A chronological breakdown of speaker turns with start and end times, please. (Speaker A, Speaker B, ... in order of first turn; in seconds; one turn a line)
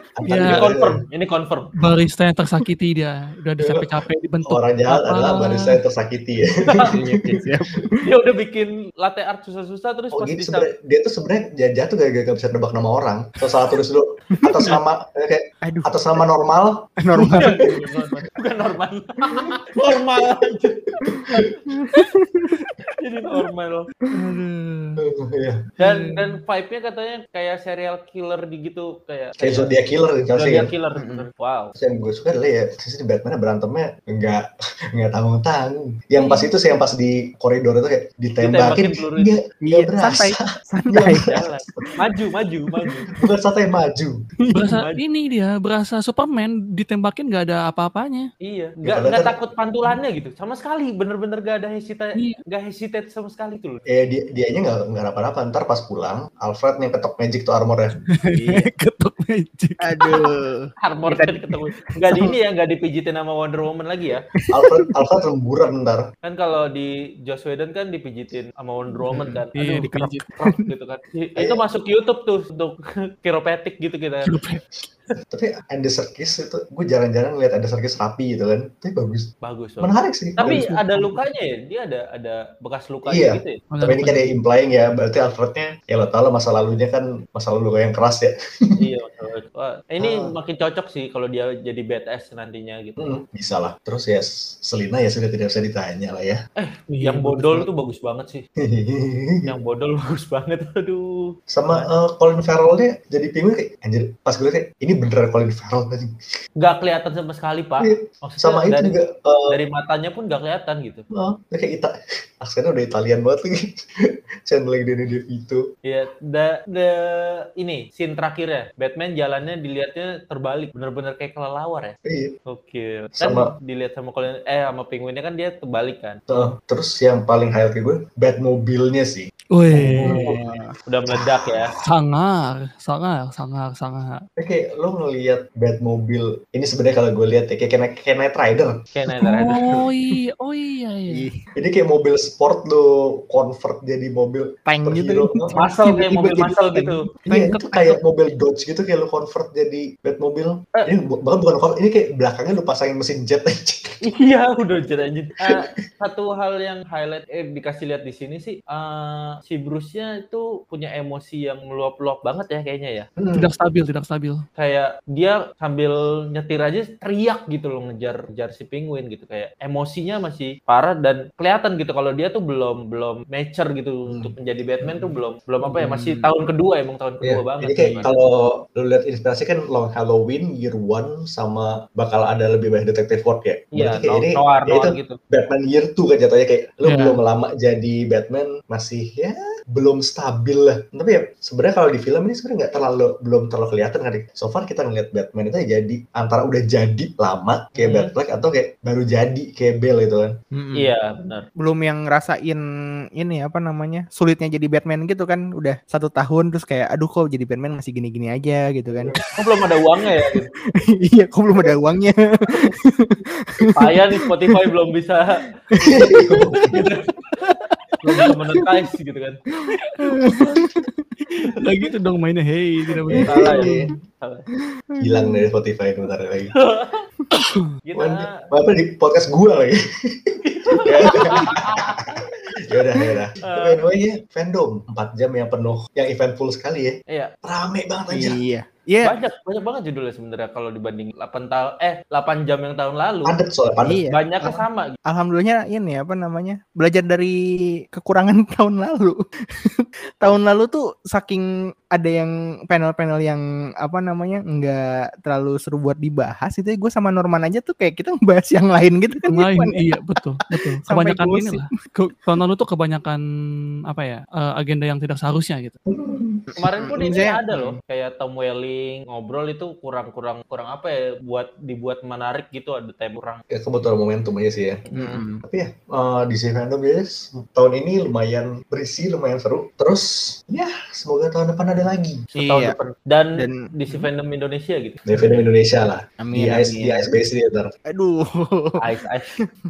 Speaker A: 0.2-1.0
Speaker B: 0.3-0.7
Speaker C: 0.5-1.7
Speaker B: 1.8-5.8
Speaker A: 3.6-7.4
Speaker C: 6.7-7.0
Speaker D: 6.9-8.1
Speaker C: 8.0-10.7
Speaker A: 10.1-17.5
Speaker D: 14.4-14.8
Speaker D: 15.6-16.3
Speaker D: 17.0-17.7
Speaker C: 17.4-21.0
Speaker A: 21.0-21.6
Speaker D: 21.1-22.7
Speaker C: 23.0-23.9
Speaker B: 24.1-25.0
Speaker D: 24.1-24.4
Speaker A: 25.0-25.7
Speaker C: 25.8-29.7
Speaker B: 25.8-26.2
Speaker A: 29.4-30.7
Speaker C: 30.3-31.8
Speaker D: 30.9-31.3
Speaker A: 31.8-41.9
Speaker B: 36.2-36.5
Speaker C: 38.4-39.4
Speaker D: 39.6-41.9
Speaker C: 41.3-43.1
Speaker A: 43.1-44.2
Speaker D: 44.4-44.7
Speaker B: 44.5-48.3
Speaker C: 44.6-45.0
Speaker C: 48.4-53.8
Speaker A: 48.8-49.4
Speaker B: 52.1-52.4
Speaker A: 53.9-58.0
Speaker B: 58.1-60.3
Speaker C: 58.3-58.6
Speaker D: 59.8-62.4
Speaker C: 60.8-64.2
Speaker D: 64.3-64.9
Speaker A: 64.5-66.1
Speaker C: 66.2-74.3
Speaker D: 69.0-70.7
Speaker B: 69.6-70.3
Speaker A: 71.4-71.6
Speaker B: 74.2-74.6
Speaker A: 75.3-80.7
Speaker C: 79.4-83.6
Speaker B: 80.4-81.3
Speaker A: 83.0-88.8
Speaker B: 83.7-84.4
Speaker C: 88.8-93.2
Speaker A: 90.0-90.3
Speaker A: 93.0-96.4
Speaker C: 96.6-98.5
Speaker D: 97.0-97.7
Speaker A: 98.6-99.5
Speaker C: 99.5-101.9
Speaker A: 101.5-106.1
Speaker C: 106.6-109.0
Speaker A: 107.8-109.6
Speaker C: 109.5-111.1
Speaker A: 111.1-115.7
Speaker C: 115.8-122.0
Speaker A: 122.1-122.3
Speaker C: 122.5-126.2
Speaker A: 123.2-123.5
Speaker A: 126.3-130.3
Speaker B: 129.5-130.4
Speaker D: 129.8-130.7
Speaker C: 130.1-131.7
Speaker B: 131.8-134.2
Speaker A: 134.4-138.8
Speaker C: 138.9-139.8
Speaker B: 139.1-141.3
Speaker D: 141.1-141.4
Speaker A: 141.6-145.6
Speaker D: 144.7-148.0
Speaker C: 145.6-147.1
Speaker A: 147.3-154.0
Speaker C: 154.0-163.1
Speaker A: 163.2-163.5
Speaker B: 163.3-164.4
Speaker C: 164.6-178.2
Speaker A: 174.1-174.3
Speaker D: 175.7-176.3
Speaker A: 177.2-200.4
Speaker C: 183.7-185.2
Speaker B: 186.8-187.2
Speaker C: 197.8-198.1
Speaker D: 200.5-200.9
Speaker C: 200.8-201.5
Speaker D: 201.6-202.6
Speaker D: 203.2-209.3
Speaker A: 208.9-209.2
Speaker C: 209.4-210.5
Speaker D: 210.3-214.6
Speaker C: 213.8-217.6
Speaker D: 215.7-216.9
Speaker A: 215.8-216.8
Speaker D: 218.1-218.3
Speaker C: 218.1-219.4
Speaker B: 219.8-220.7
Speaker D: 220.0-221.2
Speaker B: 221.6-223.4
Speaker D: 223.0-223.9
Speaker A: 223.1-223.9
Speaker C: 223.2-224.5
Speaker D: 224.9-225.4
Speaker A: 225.0-226.6
Speaker C: 226.5-227.1
Speaker B: 227.3-227.6
Speaker C: 227.8-228.4
Speaker A: 227.9-238.4
Speaker C: 230.4-232.3
Speaker C: 233.4-233.8
Speaker D: 238.1-239.2
Speaker C: 239.0-243.4
Speaker A: 243.2-244.0
Speaker D: 243.8-259.9
Speaker C: 244.1-245.0
Speaker B: 259.3-263.2
Speaker D: 260.6-261.7
Speaker B: 263.9-265.8
Speaker A: 265.9-266.4
Speaker D: 266.5-267.8
Speaker C: 266.6-273.4
Speaker A: 273.5-274.9
Speaker C: 274.9-275.2
Speaker D: 274.9-275.4
Speaker A: 275.4-282.2
Speaker C: 282.3-285.4
Speaker D: 282.4-282.8
Speaker D: 283.4-284.1
Speaker A: 285.1-287.7
Speaker D: 286.2-287.1
Speaker D: 287.9-288.8
Speaker C: 288.8-289.3